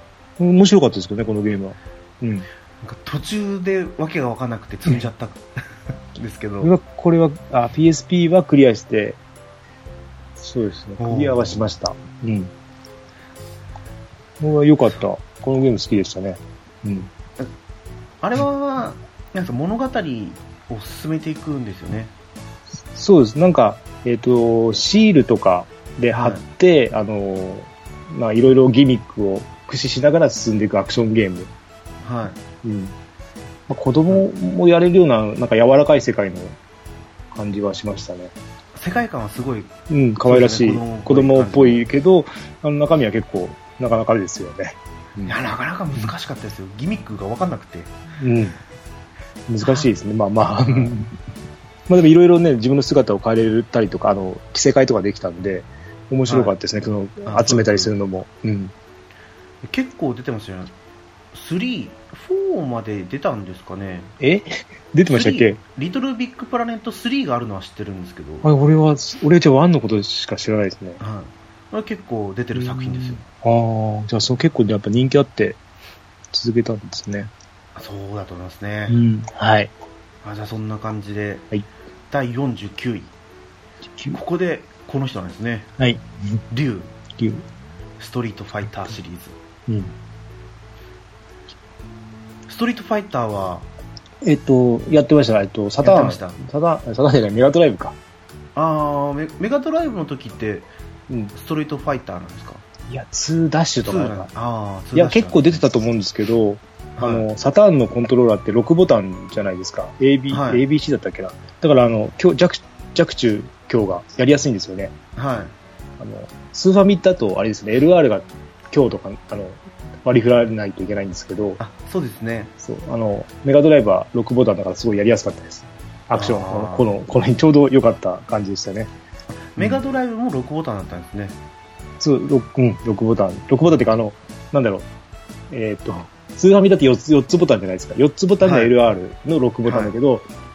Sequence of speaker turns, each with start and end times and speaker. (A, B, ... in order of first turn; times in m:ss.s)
0:00.4-0:02.5 A
0:02.8-0:05.5 B
0:06.1-0:06.7 B
0:06.6-0:09.2 A
0:10.4-0:12.5 A
0:11.0-0:11.6 B
0:14.4-0:17.1 A
0:18.2-0:22.1 B
0:22.9-0:31.5 A
0:26.1-0:26.4 B
0:32.0-0:32.4 B
0:32.6-0:32.9 A
0:33.7-0:36.6 A
0:37.3-0:38.3 A
0:38.7-0:41.8 B
0:39.9-0:45.3 A
0:45.2-0:47.9 B
0:48.2-0:48.6 A
0:49.5-0:51.1 A
0:49.6-0:49.9 B
0:50.6-0:50.9 B
0:51.9-0:58.7 A
0:56.3-0:56.5 B
0:57.2-0:57.9 B
0:59.6-1:00.7 B
1:01.3-1:04.1 B
1:04.2-1:05.6 A
1:05.1-1:08.5 B
1:08.4-1:11.0 A
1:11.0-1:13.2 B
1:12.6-1:15.6 A
1:16.3-1:17.3 A
1:17.7-1:19.0 B
1:18.9-1:19.7 A
1:20.2-1:21.4 B
1:22.1-1:23.1 B
1:24.1-1:25.7 B
1:25.8-1:26.4 A
1:26.5-1:26.9 B
1:27.2-1:27.4 A
1:28.0-1:29.4 B
1:29.7-1:29.9 A
1:32.5-1:33.7 B
1:34.2-1:38.0 A
1:35.8-1:36.4 B
1:38.5-1:40.7 B
1:41.3-1:42.6 B
1:42.9-1:44.3 A
1:43.8-1:45.6 B
1:44.9-1:54.9 A
1:47.0-1:47.3 B
1:50.3-1:50.6 B
1:55.2-1:55.5 B
1:56.0-2:01.6 A
2:01.6-2:02.5 B
2:02.6-2:08.9 A
2:06.1-2:06.9 B
2:09.3-2:11.4 B
2:12.0-2:14.8 A
2:15.5-2:20.3 A
2:18.4-2:18.7 B
2:19.6-2:19.9 B